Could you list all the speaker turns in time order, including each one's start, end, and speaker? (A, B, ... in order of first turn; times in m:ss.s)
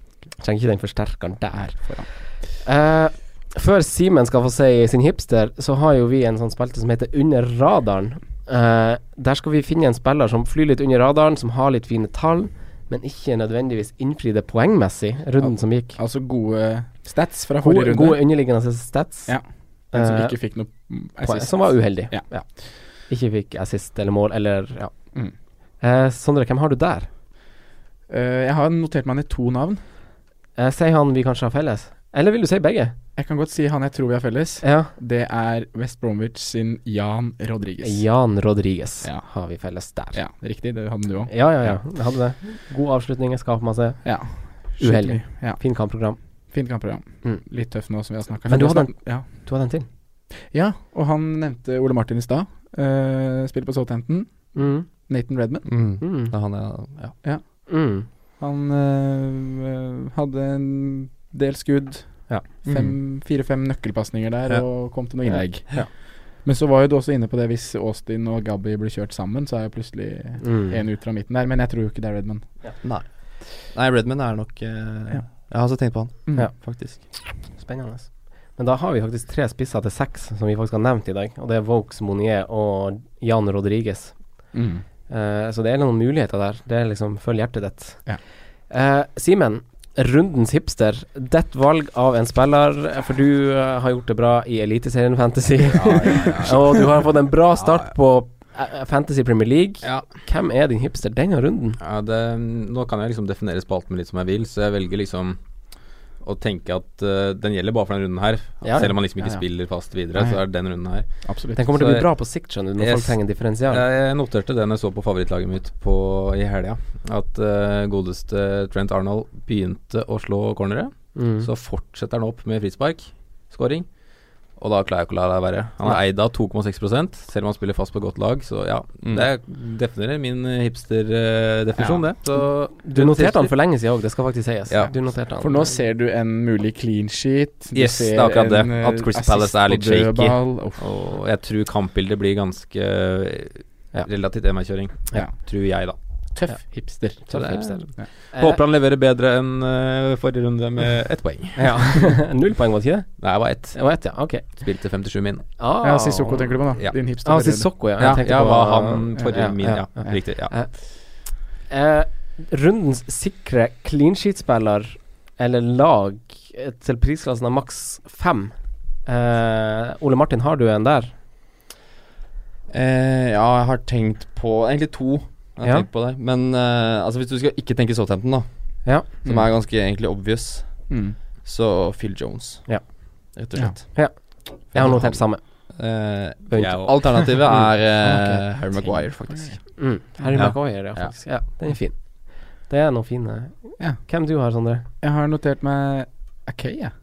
0:00.3-0:16.0 A
0:01.5-0:02.2 B
0:15.4-0:18.4 B
0:17.6-0:19.4 A
0:19.3-0:22.3 B
0:19.9-0:20.7 A
0:21.2-0:25.0 A
0:25.8-0:27.1 A
0:28.1-0:29.8 B
0:30.6-0:32.9 A
0:33.2-0:38.0 B
0:34.6-0:34.9 A
0:37.8-0:40.2 A
0:40.1-0:41.8 B
0:41.3-0:46.2 A
0:44.0-0:49.4 B
0:48.4-0:49.9 A
0:50.5-0:55.9 B
0:54.5-0:54.9 A
0:55.6-0:57.2 C
0:56.0-0:56.3 A
0:57.2-1:12.8 B
0:57.7-0:58.1 A
1:02.6-1:03.0 C
1:10.4-1:10.8 A
1:12.8-1:17.0 C
1:15.8-1:16.5 B
1:16.3-1:24.5 A
1:24.5-1:24.8 B
1:25.1-1:41.8 A
1:35.6-1:37.0 D
1:37.6-1:37.9 D
1:41.8-1:45.4 D
1:46.2-1:52.1 D
1:48.6-1:48.9 A
1:51.2-1:51.7 B
1:51.5-1:53.8 A
1:52.8-2:13.5 D
2:01.1-2:01.5 A
2:09.0-2:09.3 C
2:12.6-2:15.7 A
2:14.7-2:14.9 D
2:15.4-2:20.8 B
2:17.7-2:26.0 D
2:26.3-2:27.4 B
2:26.5-2:28.6 A
2:27.3-2:32.1 D
2:31.6-2:34.6 A
2:33.2-2:35.5 D
2:35.6-2:51.1 A
2:35.8-2:37.7 B
2:38.0-2:40.5 D
2:52.7-3:04.0 C
2:55.6-2:55.9 A
3:00.9-3:01.2 B
3:03.9-3:05.7 A
3:04.7-3:09.6 C
3:06.5-3:07.4 A
3:06.5-3:07.3 D
3:08.0-3:09.6 B
3:09.8-3:14.8 A
3:15.0-3:16.9 B